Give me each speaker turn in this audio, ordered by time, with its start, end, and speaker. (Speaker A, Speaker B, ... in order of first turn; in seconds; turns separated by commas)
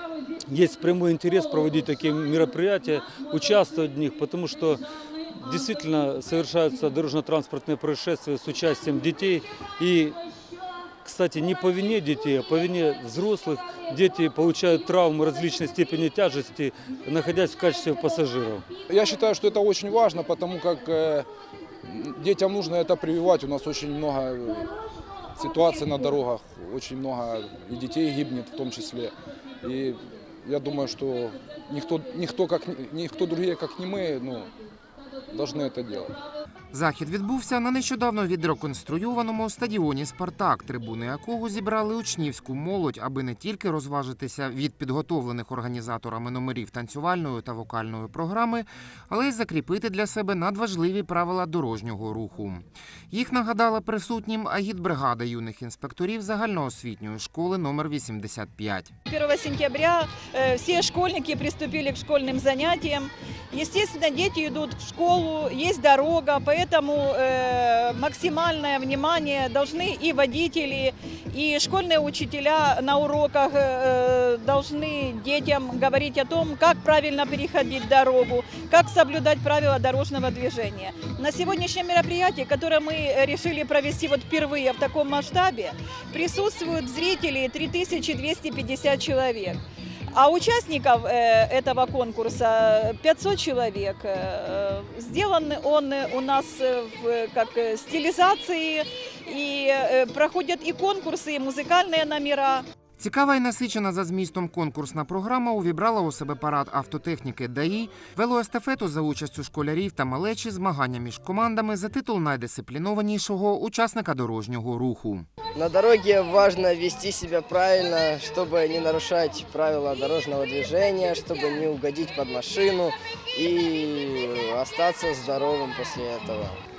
Speaker A: 0.5-4.8, Speaker A: 5.3-10.2, Speaker A: 11.0-18.7, Speaker B: 18.9-21.3, Speaker B: 21.8-24.7, Speaker B: 25.4-34.5, Speaker B: 35.3-36.1, Speaker C: 36.7-58.9, Speaker D: 59.1-89.6, Speaker D: 90.1-102.6, Speaker C: 103.0-115.3, Speaker E: 115.5-126.6